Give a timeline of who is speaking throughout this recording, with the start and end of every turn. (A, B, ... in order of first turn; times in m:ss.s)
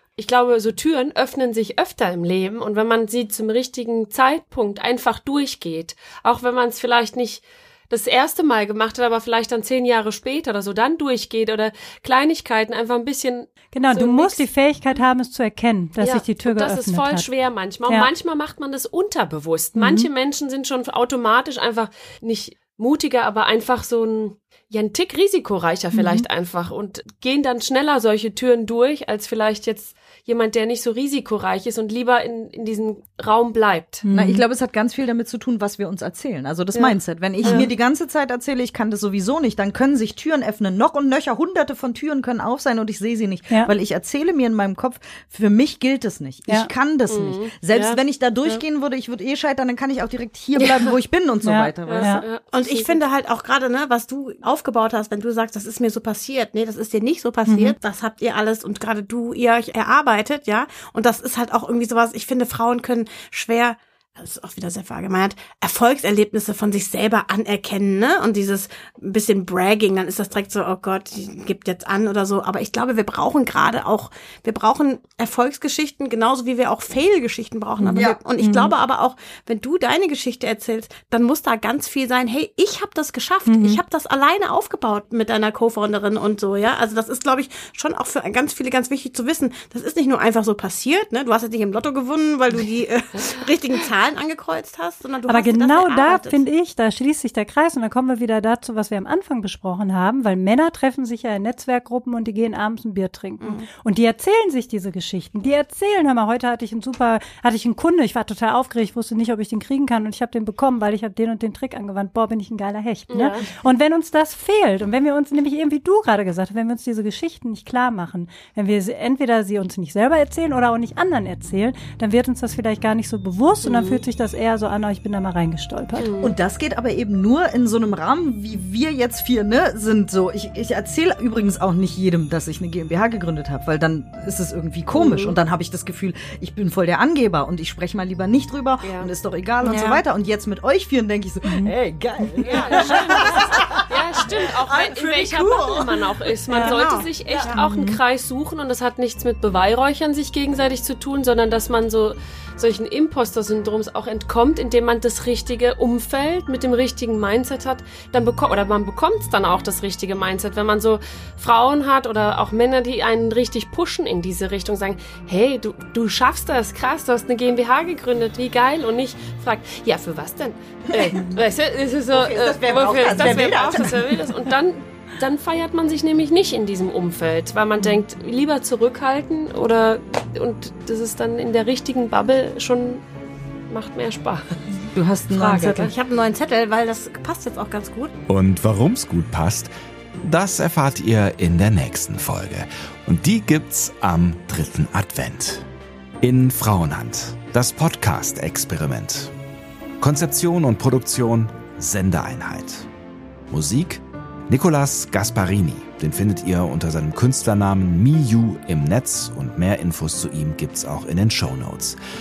0:00.2-0:14.4 A
0:13.7-0:17.3 B
0:16.0-0:34.0 A
0:19.7-0:20.1 B
0:25.9-0:26.2 B
0:34.0-0:34.4 B
0:34.1-0:52.2 C
0:36.7-0:37.7 A
0:47.1-0:48.6 A
0:50.6-0:50.9 A
0:51.4-0:52.2 B
0:51.8-0:53.0 A
0:52.5-1:36.4 D
0:57.5-0:57.7 B
1:17.8-1:18.7 B
1:17.9-1:18.2 C
1:23.4-1:23.8 B
1:35.3-2:06.1 B
1:53.1-1:53.5 A
2:03.6-2:04.0 A
2:06.0-2:06.3 A
2:06.2-2:26.1 C
2:14.9-2:15.4 A
2:18.8-2:19.1 A
2:19.6-2:20.0 D
2:21.4-2:22.4 B
2:22.4-3:03.0 A
2:26.5-2:27.6 D
2:27.2-2:27.6 C
2:27.5-2:28.0 B
2:50.9-2:51.2 C
2:52.1-2:54.2 C
3:03.7-3:04.6 A
3:04.9-3:05.9 C
3:05.3-3:05.9 A
3:05.6-3:08.1 D
3:08.3-3:09.7 E
3:10.2-3:15.6 E
3:16.2-3:19.3 E
3:20.0-3:22.9 E
3:23.5-3:32.0 E